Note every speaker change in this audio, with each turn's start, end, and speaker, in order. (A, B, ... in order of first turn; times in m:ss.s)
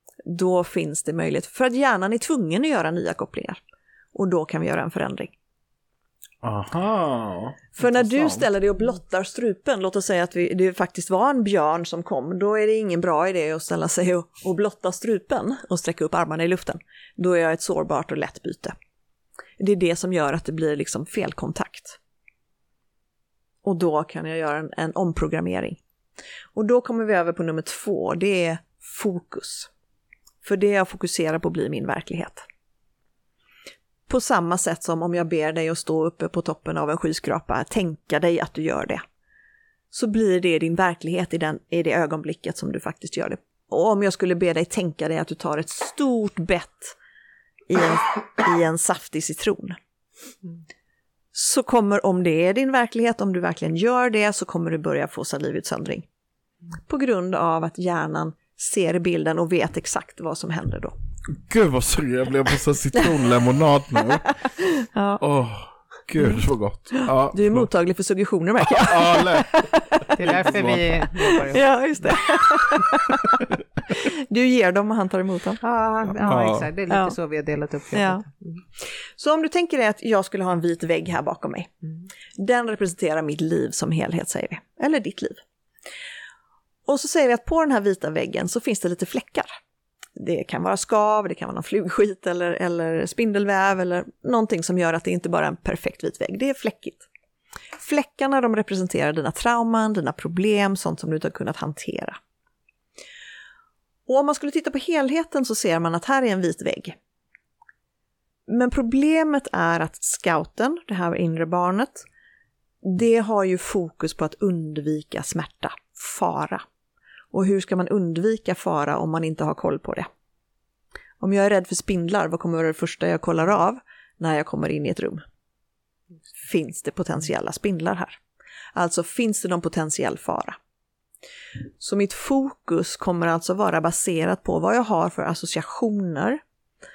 0:00.2-0:03.6 A
0:04.1-0:05.3 A
0:06.4-0:08.5 B
0:07.8-0:18.8 A
0:19.6-0:22.0 A
0:23.6-0:25.8 A
0:26.5-0:29.7 A
0:30.4-0:32.4 A
0:34.1-0:39.0 A
0:39.9-0:47.0 A
0:47.7-0:49.8 A
0:51.3-0:56.1 A
0:56.9-1:01.0 A
1:01.3-1:04.3 B
1:04.3-1:05.2 A
1:05.2-1:07.7 B
1:06.9-1:10.2 A
1:08.6-1:10.9 B
1:10.2-1:11.7 C
1:11.3-1:15.6 A
1:15.6-1:18.6 C
1:16.2-1:16.7 B
1:16.9-1:17.2 A
1:17.9-1:18.2 A
1:18.8-1:21.7 A
1:22.4-1:25.4 A
1:26.9-1:29.6 A
1:30.2-1:37.1 A
1:37.8-1:42.2 A
1:44.1-1:47.0 A
1:48.5-1:52.0 A
1:52.8-1:56.6 A
1:57.3-2:00.1 A
2:01.2-2:05.2 A
2:06.4-2:08.2 A
2:08.8-2:10.6 A
2:11.8-2:16.4 A